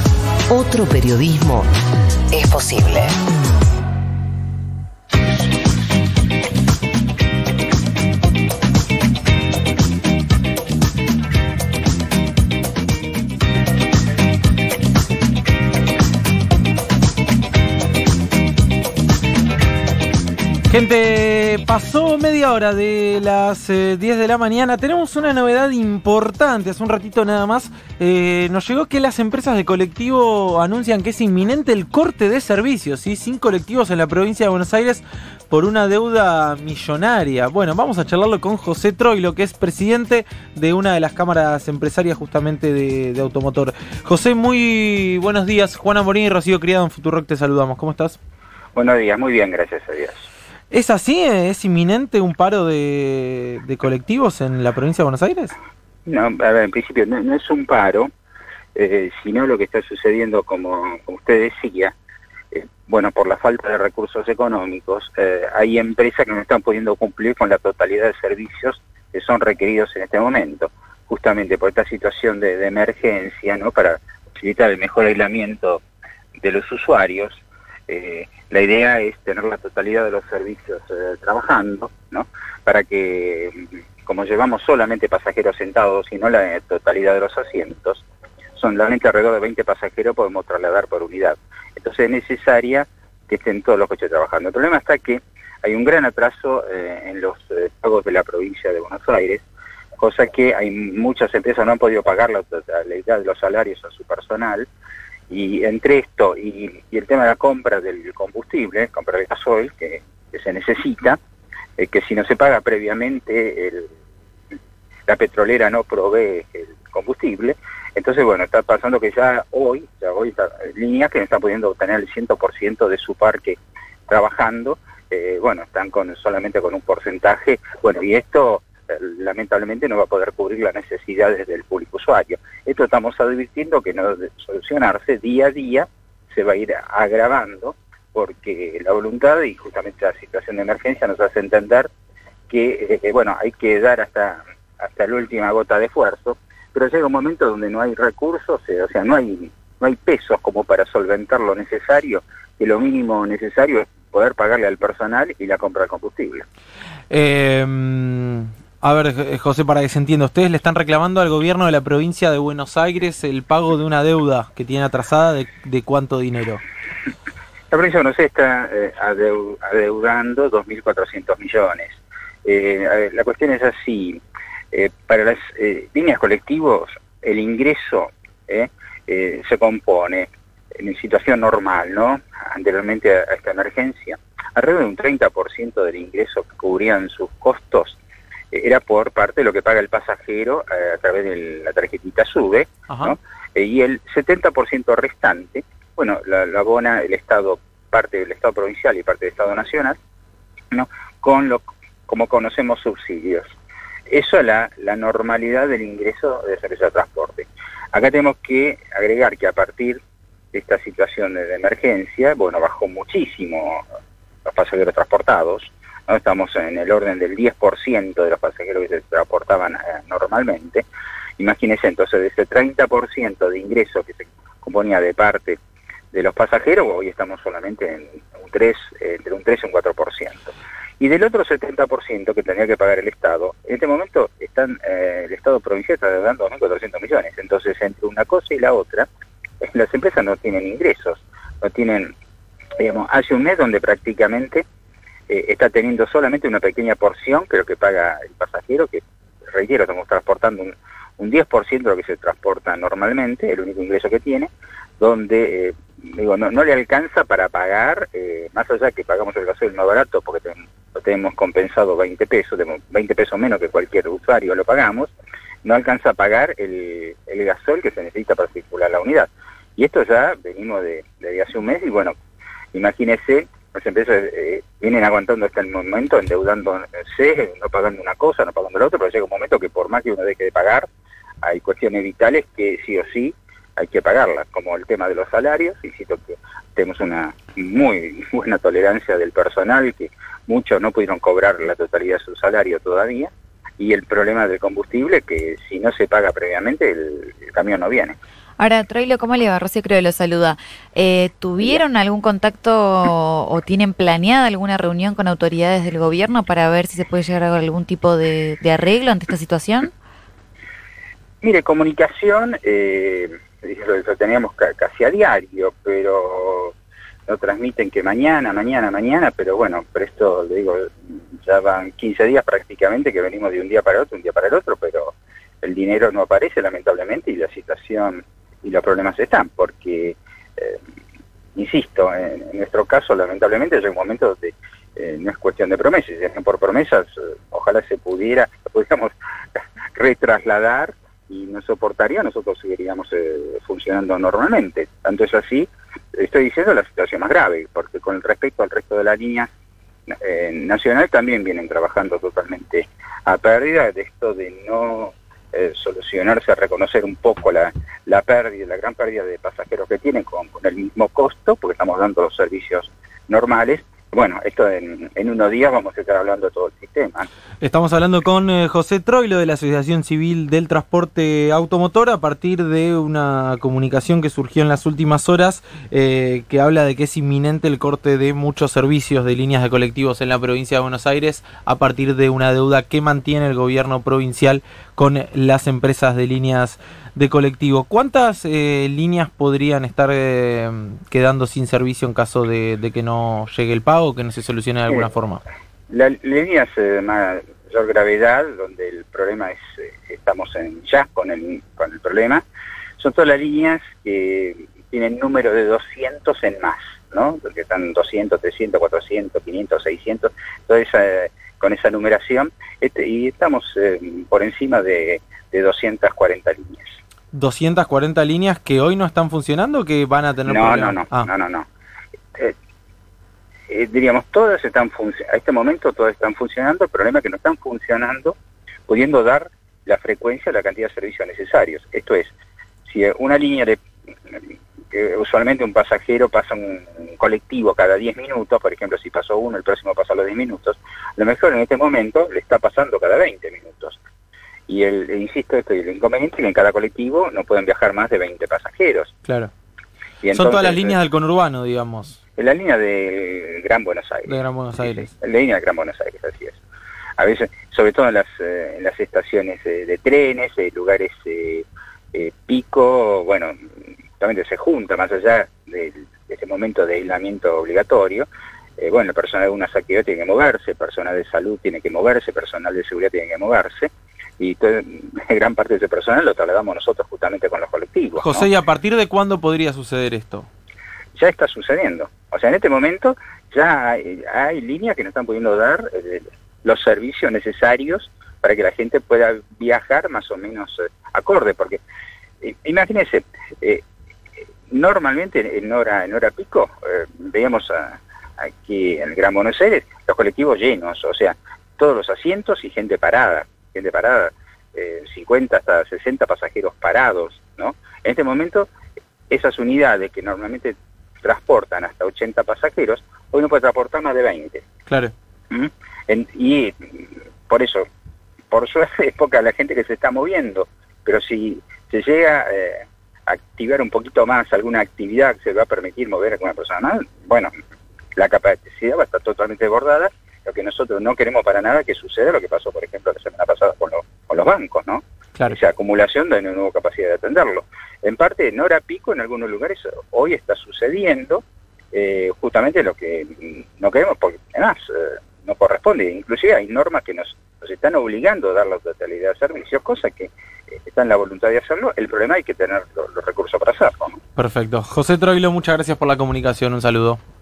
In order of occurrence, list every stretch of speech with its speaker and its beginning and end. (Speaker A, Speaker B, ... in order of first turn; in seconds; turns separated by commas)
Speaker A: 0.5-1.7, Speaker A: 2.3-3.2, Speaker B: 20.7-48.2, Speaker C: 48.7-50.3, Speaker B: 50.7-55.5, Speaker C: 56.0-58.1, Speaker C: 58.7-61.9, Speaker C: 62.5-75.8, Speaker C: 76.4-99.4, Speaker C: 100.0-104.7, Speaker C: 105.3-111.2, Speaker C: 111.8-113.9, Speaker C: 115.1-141.9, Speaker C: 142.5-156.4, Speaker B: 157.1-166.6, Speaker C: 167.7-188.0, Speaker C: 188.5-200.0, Speaker B: 192.9-193.1, Speaker C: 200.7-203.5, Speaker C: 204.1-210.0, Speaker C: 210.5-213.8, Speaker C: 214.4-220.8, Speaker C: 221.4-225.6, Speaker C: 226.1-239.1, Speaker C: 239.6-242.1, Speaker C: 242.8-244.6, Speaker C: 245.3-265.1, Speaker C: 265.6-272.1, Speaker C: 272.7-280.9, Speaker C: 281.4-298.2, Speaker D: 298.6-309.9, Speaker C: 311.4-316.7, Speaker C: 317.3-330.8, Speaker C: 331.5-339.1, Speaker C: 339.9-349.5, Speaker C: 350.2-367.3, Speaker B: 367.6-395.4, Speaker C: 395.9-402.4, Speaker C: 403.0-416.9, Speaker B: 417.3-421.3, Speaker C: 420.4-421.7, Speaker C: 423.7-428.4, Speaker C: 428.9-432.3, Speaker C: 432.9-433.8, Speaker C: 434.9-444.0, Speaker C: 444.7-449.1, Speaker B: 449.2-449.5, Speaker C: 450.2-451.0, Speaker B: 450.3-452.2, Speaker C: 452.4-456.6, Speaker B: 454.2-455.1, Speaker C: 457.2-463.6, Speaker C: 464.2-478.4, Speaker B: 478.2-480.5, Speaker C: 481.1-491.8, Speaker C: 492.4-493.8, Speaker C: 494.7-508.7, Speaker C: 509.3-514.6, Speaker B: 514.9-515.1, Speaker C: 515.5-517.9, Speaker C: 518.5-527.5, Speaker C: 528.1-550.3, Speaker C: 550.8-554.2, Speaker B: 554.4-557.2